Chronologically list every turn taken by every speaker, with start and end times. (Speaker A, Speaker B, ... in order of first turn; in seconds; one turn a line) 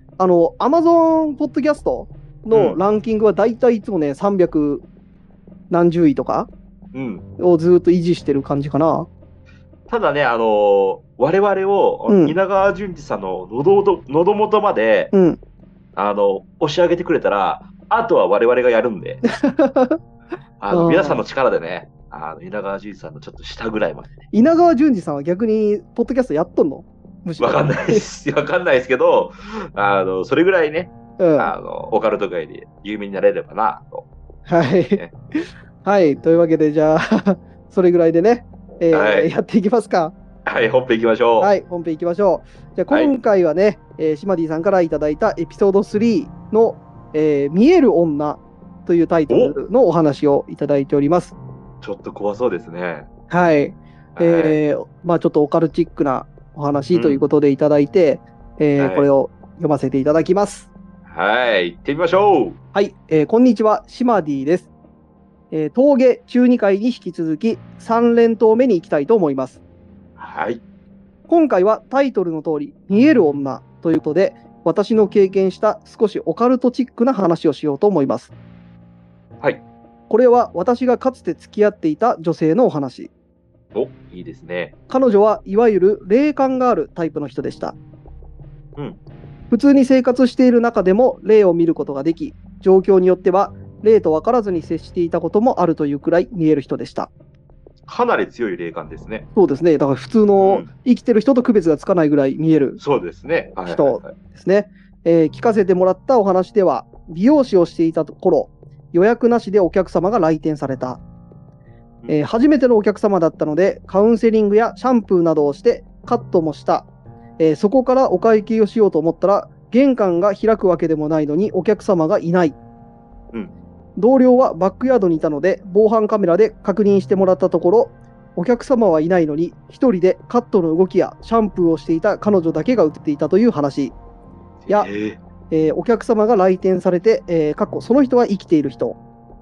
Speaker A: 0.2-4.8
Speaker B: 2.5-2.8
Speaker A: 5.7-6.5
Speaker B: 6.9-7.2
Speaker A: 7.4-9.1
Speaker B: 9.9-15.1
Speaker A: 12.1-12.4
Speaker A: 15.1-15.4
Speaker B: 16.0-19.2
Speaker A: 19.3-20.0
Speaker B: 20.6-24.2
Speaker A: 20.7-21.2
Speaker A: 24.3-28.1
Speaker B: 27.4-34.1
Speaker A: 31.2-31.5
Speaker A: 34.5-35.0
Speaker A: 35.9-40.1
Speaker B: 38.9-39.3
Speaker B: 40.5-41.5
Speaker A: 41.4-51.4
Speaker B: 49.3-49.6
Speaker B: 51.8-53.1
Speaker A: 53.3-60.7
Speaker B: 54.2-54.6
Speaker B: 56.9-57.2
Speaker B: 58.8-59.1
Speaker B: 61.1-62.6
Speaker A: 62.7-64.7
Speaker A: 65.5-69.6
Speaker B: 70.2-70.6
Speaker A: 71.3-78.3
Speaker A: 80.1-83.1
Speaker B: 83.7-84.7
Speaker A: 84.9-87.8
Speaker A: 89.5-97.1
Speaker B: 97.9-99.3
Speaker A: 99.3-102.8
Speaker B: 100.4-100.7
Speaker B: 102.8-104.2
Speaker A: 103.7-111.0
Speaker A: 112.1-116.9
Speaker A: 117.4-122.6
Speaker A: 124.0-134.0
Speaker B: 134.6-135.2
Speaker A: 135.5-139.0